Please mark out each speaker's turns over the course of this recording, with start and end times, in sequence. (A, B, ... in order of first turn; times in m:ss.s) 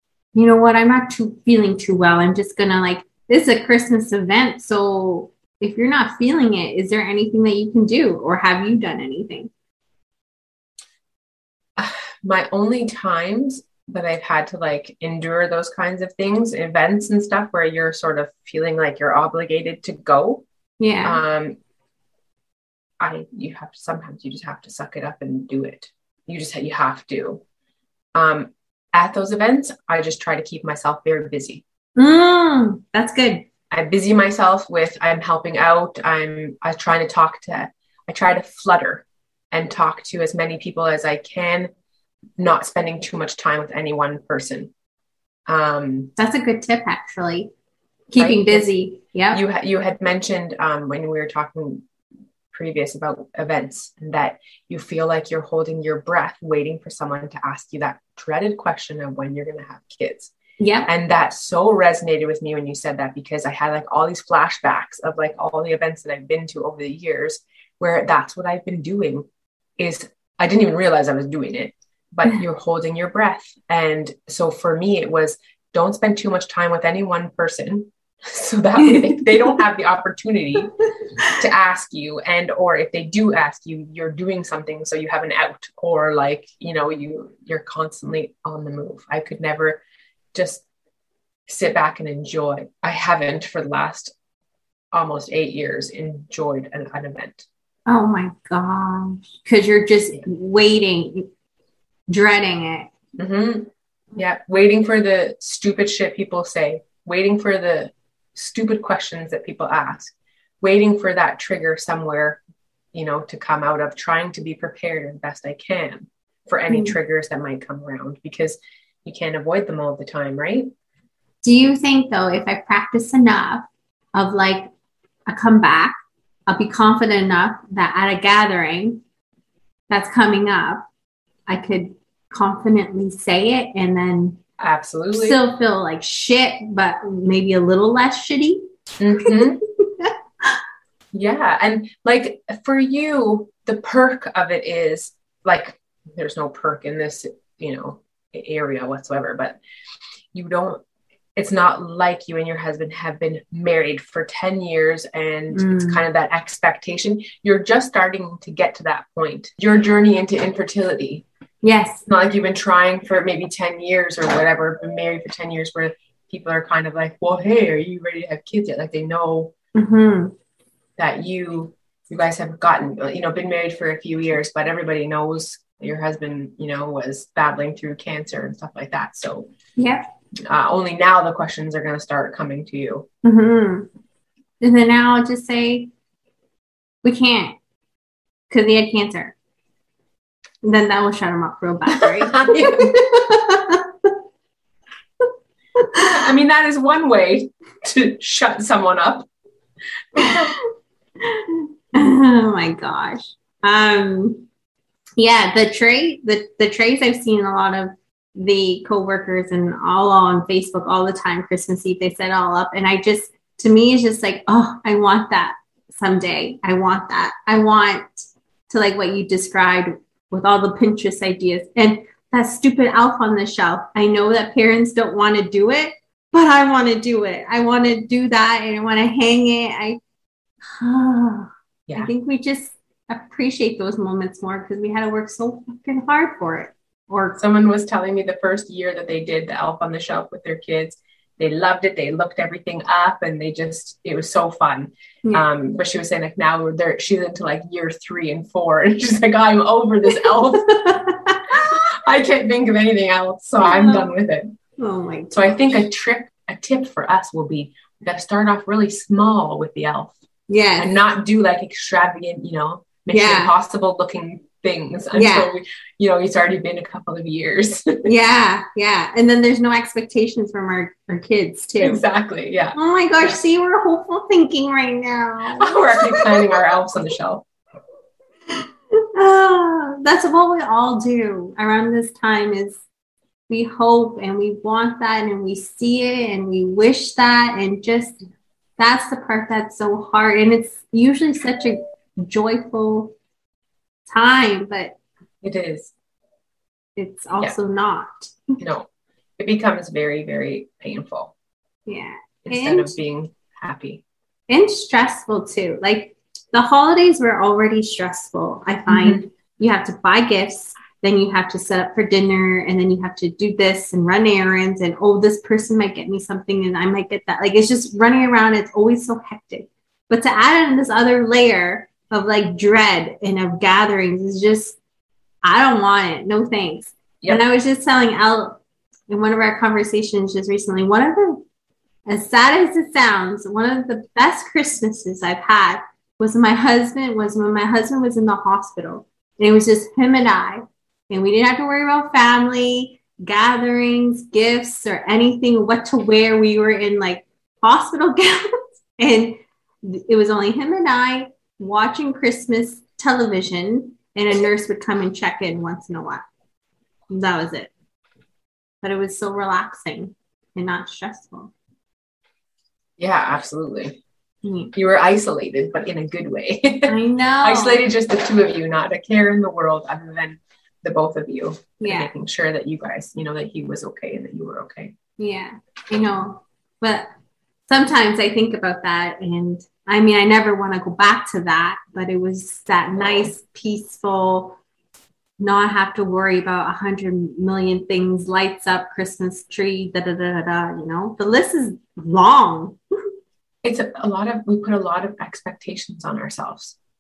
0:00.3-0:09.5 A
0:11.8-0:20.4 B
0:20.8-0:21.2 A
0:21.0-0:21.6 B
0:23.0-0:27.4 B
0:28.1-0:31.6 B
0:32.0-0:33.5 A
0:33.7-0:41.7 B
0:42.4-0:44.7 B
0:45.5-0:46.1 B
0:46.2-0:47.5 A
0:48.1-0:49.4 A
0:48.2-0:48.7 B
0:49.3-0:51.8 B
0:52.5-1:00.3 B
1:00.6-1:00.9 A
1:00.9-1:09.3 B
1:09.8-1:20.7 B
1:18.8-1:19.6 A
1:21.3-1:29.8 B
1:30.3-1:30.6 B
1:31.5-1:34.1 B
1:34.9-1:37.5 B
1:37.9-1:41.3 A
1:42.1-1:42.9 A
1:43.2-1:52.4 B
1:52.9-2:00.7 B
1:56.7-1:57.0 A
2:01.4-2:04.7 A
2:05.3-2:09.0 A
2:09.9-2:10.8 A
2:11.5-2:14.4 A
2:14.6-2:15.4 B
2:15.1-2:18.6 A
2:19.0-2:19.6 B
2:19.2-2:20.6 A
2:21.1-2:29.6 B
2:30.3-2:30.8 B
2:31.4-2:41.3 B
2:35.5-2:36.0 A
2:41.6-2:42.1 A
2:42.1-2:49.5 B
2:49.8-2:50.3 A
2:51.0-2:59.5 B
2:59.8-3:00.0 A
3:00.5-3:03.1 B
3:03.2-3:03.9 A
3:04.6-3:05.9 A
3:07.0-3:07.6 A
3:08.5-3:09.4 A
3:10.6-3:14.1 A
3:11.9-3:13.0 B
3:15.8-3:16.2 A
3:16.0-3:19.3 B
3:20.2-3:20.6 B
3:20.2-3:20.6 A
3:21.2-3:24.5 A
3:25.2-3:38.1 A
3:38.7-3:50.0 A
3:50.8-3:57.4 A
3:57.4-4:14.6 B
4:10.1-4:11.8 A
4:13.6-4:14.1 A
4:14.8-4:15.8 A
4:15.3-4:20.2 B
4:20.5-4:21.0 A
4:20.8-4:28.1 B
4:23.1-4:23.5 A
4:25.1-4:25.5 A
4:28.0-4:32.0 A
4:31.8-4:33.4 B
4:32.8-4:36.4 A
4:35.6-4:37.4 B
4:39.1-4:42.8 A
4:43.5-4:48.2 A
4:48.8-4:53.2 A
4:54.1-4:55.0 A
4:55.4-4:55.9 B
4:57.0-4:58.5 A
4:58.6-5:01.3 B
5:01.9-5:03.0 A
5:02.4-5:04.0 B
5:04.5-5:24.8 A
5:08.9-5:09.2 B
5:25.4-5:31.4 A
5:32.1-5:56.2 A
5:57.1-5:57.7 A
5:58.8-6:01.5 A
6:03.0-6:04.0 B
6:04.4-6:04.7 A
6:04.7-6:14.9 B
6:06.9-6:07.8 A
6:11.8-6:12.1 A
6:15.2-6:17.1 A
6:17.7-6:24.6 A
6:25.4-6:32.8 A
6:33.6-6:36.8 B